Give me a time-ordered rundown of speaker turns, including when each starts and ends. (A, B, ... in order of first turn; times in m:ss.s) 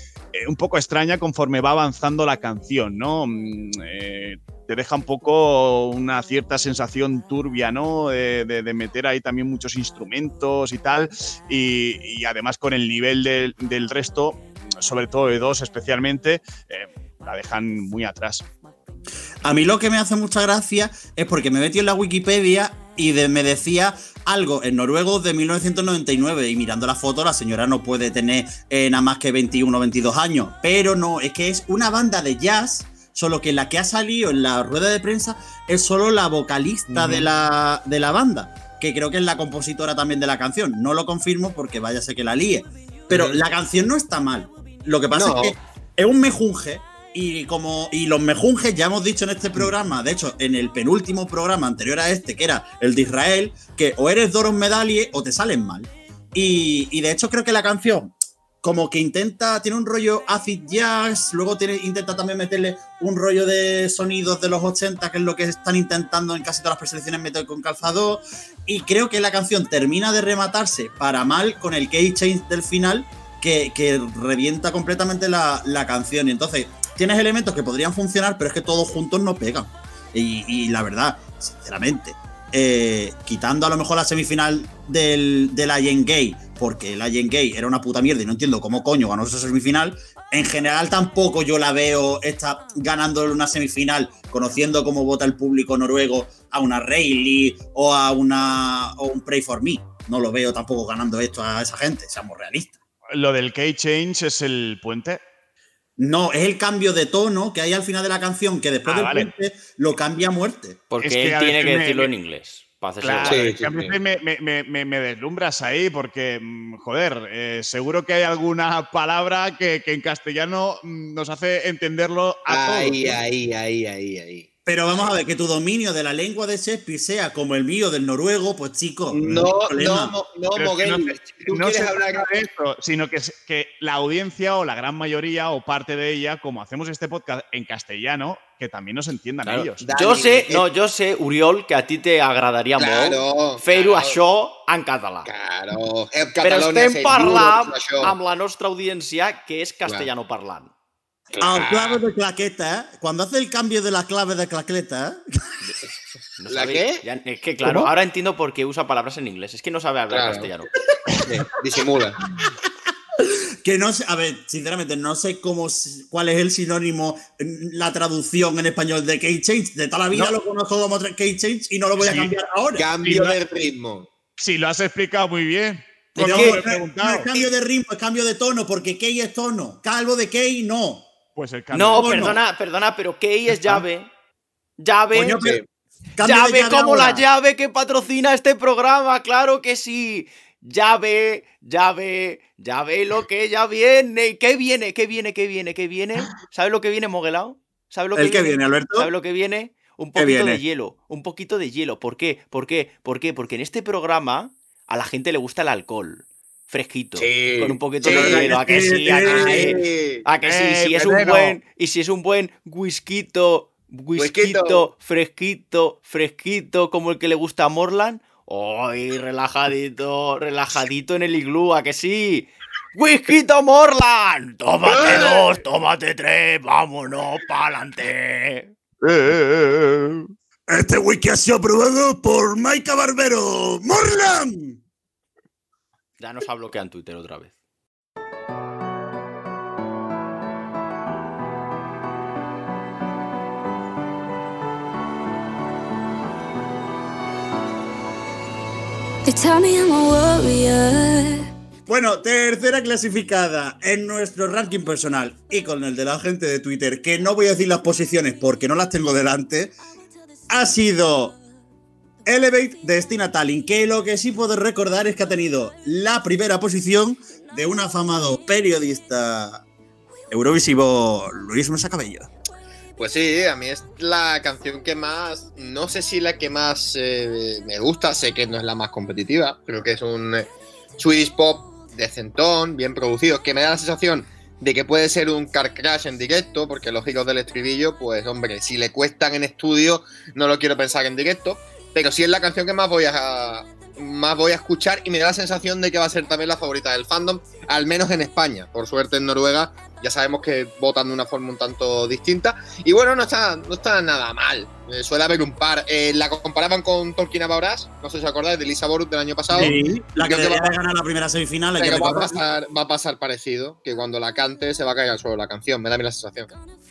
0:00.3-0:18.4 A
0:19.4-1:42.8 B
0:36.9-0:37.3 C
0:43.1-0:43.4 C
0:45.1-0:45.5 C
1:43.1-1:45.2 A
1:46.0-1:50.8 B
1:48.8-1:49.3 A
1:50.9-1:53.5 D
1:51.0-1:52.1 A
1:53.0-2:03.2 A
1:53.2-1:54.0 C
2:02.5-2:04.5 C
2:04.6-2:10.2 B
2:09.1-2:12.3 C
2:10.5-2:19.8 A
2:19.4-2:25.3 D
2:19.8-2:20.6 C
2:22.8-2:24.2 C
2:25.2-2:28.1 C
2:26.4-2:30.7 D
2:31.3-2:32.0 C
2:31.4-2:35.2 B
2:36.4-2:40.7 D
2:36.5-2:37.0 C
2:40.1-2:40.5 C
2:41.2-2:42.2 C
2:42.4-2:42.7 B
2:43.2-2:52.9 B
2:52.8-2:54.1 C
2:53.0-2:53.4 A
2:54.4-2:57.3 A
2:56.2-3:01.1 B
2:56.2-2:56.5 D
3:01.4-3:02.3 A
3:01.7-3:04.1 D
3:01.9-3:02.4 B
3:04.8-3:05.5 D
3:05.1-3:05.6 B
3:05.3-3:05.6 C
3:06.2-3:07.2 B
3:06.2-3:48.7 D
3:18.1-3:19.1 B
3:20.2-3:20.6 B
3:27.2-3:30.2 C
3:28.0-3:29.8 B
3:30.4-3:31.6 A
3:34.2-3:34.9 C
3:44.8-3:45.5 C
3:50.7-3:54.8 B
3:56.2-3:57.5 D
4:09.2-4:11.5 E
4:11.9-4:19.7 B
4:20.5-4:21.4 B
4:22.2-4:29.6 B
4:30.3-4:32.3 B
4:33.0-4:40.4 C
4:41.0-5:10.7 C
5:09.5-5:12.4 B
5:11.8-5:16.6 C